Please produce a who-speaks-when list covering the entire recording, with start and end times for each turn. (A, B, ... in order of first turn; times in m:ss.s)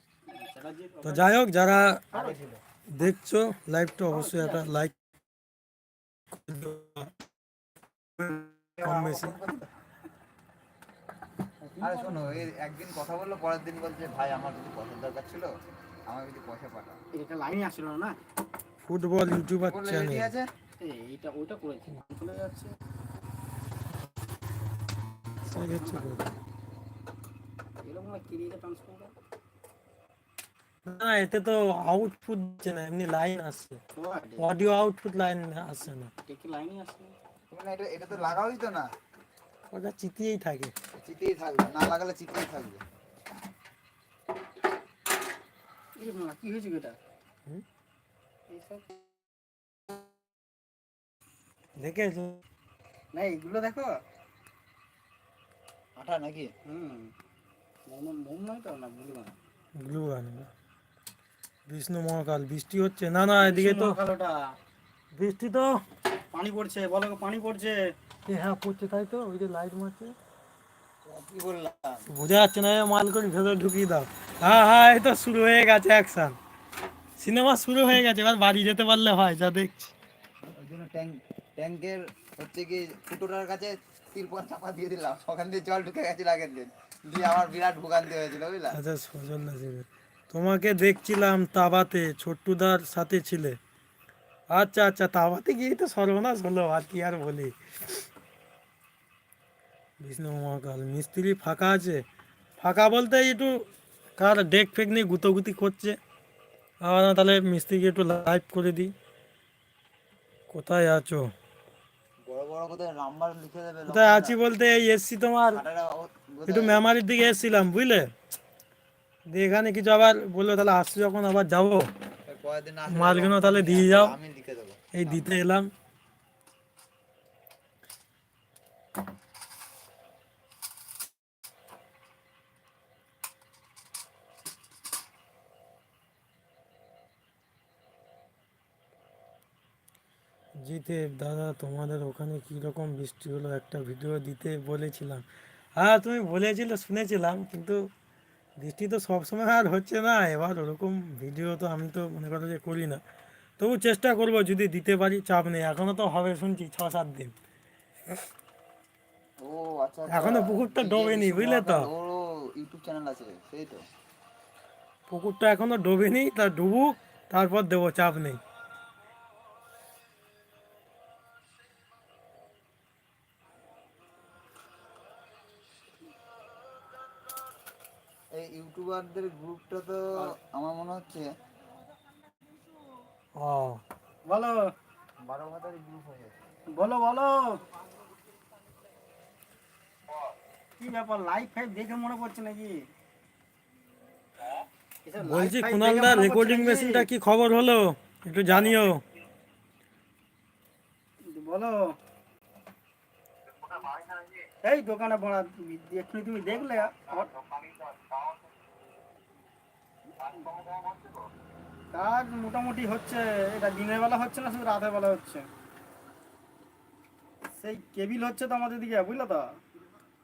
0:00.3-0:01.4 A
0:01.0-0:02.0 B
0:02.1-0:02.6 C
0:02.1-0:02.4 A
0:02.9-0:04.9 B
0:04.1-0:04.7 A
0:06.3-0:07.1 B
0:08.2-0:09.4 B
0:08.8-0:09.7 C
0:11.6-0:12.4 A
0:11.8-0:15.5 C
0:16.1-0:17.0 C
0:17.1-0:18.2 A
0:18.8-0:20.3 B
0:19.6-0:20.5 C
0:20.8-0:22.7 A
0:25.5-0:26.3 B
0:25.7-0:26.3 A
0:27.8-0:29.1 A
0:30.8-0:33.8 B
0:34.0-0:34.5 A
0:34.4-0:36.1 B
0:36.3-0:37.1 A
0:37.5-0:38.9 C
0:39.7-0:40.7 B
0:41.0-0:42.8 C
0:46.0-0:47.0 A
0:48.5-0:48.9 A
0:51.8-0:52.4 B
0:53.1-0:54.0 A
0:56.0-0:56.5 C
0:56.7-0:57.1 A
0:57.9-0:59.4 A
0:59.8-1:00.5 B
1:01.7-1:04.0 B
1:03.4-1:04.5 A
1:05.1-1:05.8 B
1:06.3-1:07.9 A
1:08.3-1:10.1 B
1:11.0-1:12.0 C
1:12.1-1:16.4 B
1:17.2-1:19.9 B
1:20.4-1:28.8 C
1:28.7-1:33.6 B
1:34.5-1:38.0 B
1:40.0-1:42.0 B
1:42.6-1:46.0 B
1:46.8-1:48.9 B
1:50.5-1:51.3 B
1:52.2-1:54.4 C
1:53.9-1:55.6 B
1:55.5-1:56.8 C
1:56.5-1:58.1 B
1:59.3-2:01.9 B
2:02.3-2:05.1 C
2:02.9-2:04.2 B
2:04.9-2:05.7 B
2:20.6-2:25.2 B
2:25.8-2:27.8 B
2:28.6-2:33.0 B
2:33.6-2:37.3 B
2:39.4-2:43.8 C
2:40.1-2:41.9 B
2:45.1-2:48.4 B
2:58.3-3:01.3 C
3:03.4-3:03.8 B
3:04.2-3:04.7 A
3:05.2-3:06.4 C
3:06.7-3:07.6 A
3:10.8-3:12.9 A
3:15.0-3:17.1 A
3:15.2-3:19.0 B
3:21.3-3:22.0 A
3:23.7-3:27.4 A
3:31.9-3:35.5 A
3:37.6-3:39.5 A